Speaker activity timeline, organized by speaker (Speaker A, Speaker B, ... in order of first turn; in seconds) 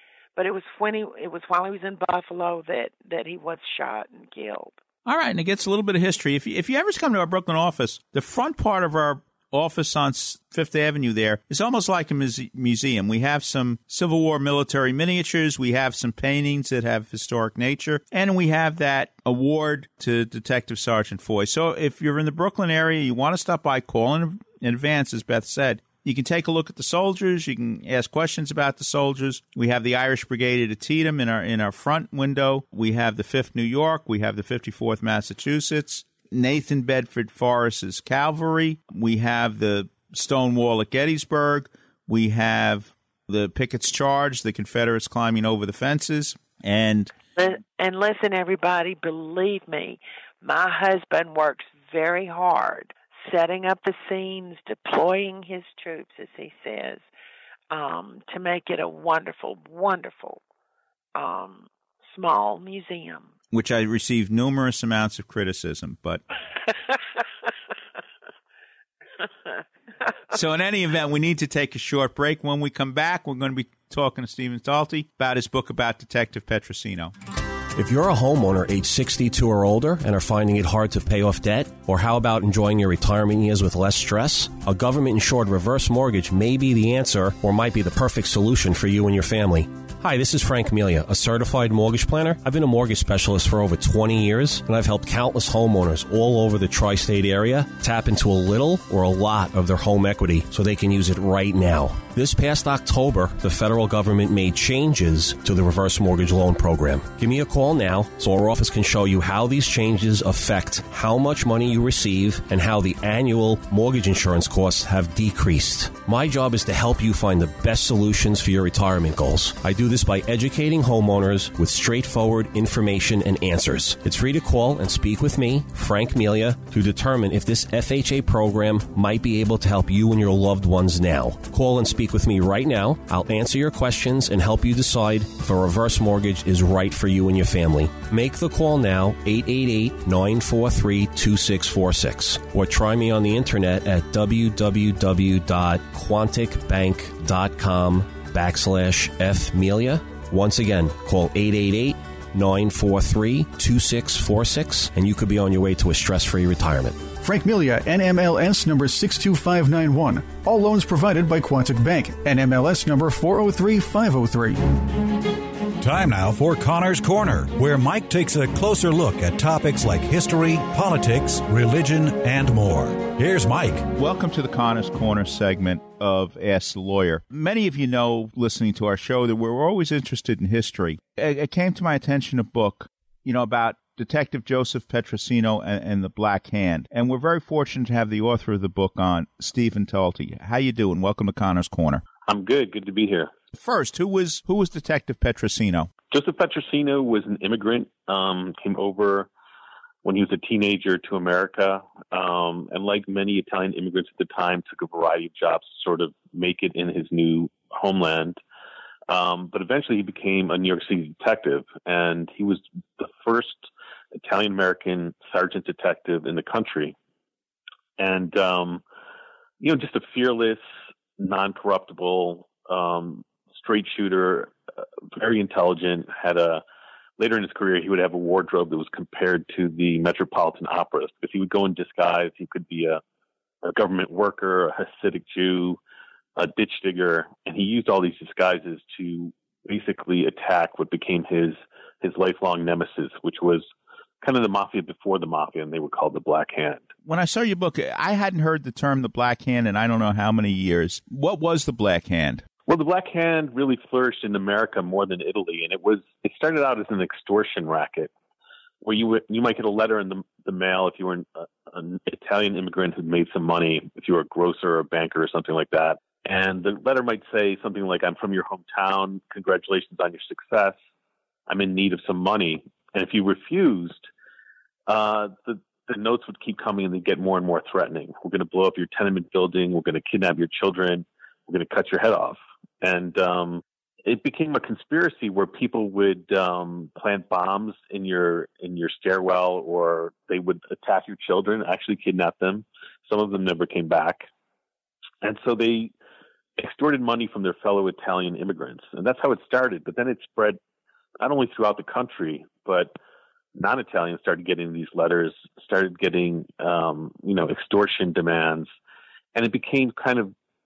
Speaker A: 0.4-4.8, 47.4-57.1, 57.7-60.4, 61.1-63.3
Speaker B: 5.0-47.1, 63.5-66.2, 70.3-77.1, 173.9-192.0, 193.5-195.9, 247.1-252.4
Speaker C: 77.8-157.1
Speaker D: 157.2-164.6
Speaker E: 165.8-173.9
Speaker F: 192.3-193.3, 196.1-199.3, 200.0-208.4, 209.1-216.9, 218.0-218.8, 219.6-220.6, 221.2-224.6, 225.1-226.6, 227.2-233.0, 233.6-235.8, 236.4-243.7, 244.2-246.9, 252.7-258.1, 258.8-270.8, 271.5-274.1, 274.9-294.3, 295.2-295.9, 296.6-300.6, 301.2-302.9, 303.6-308.7, 309.4-310.3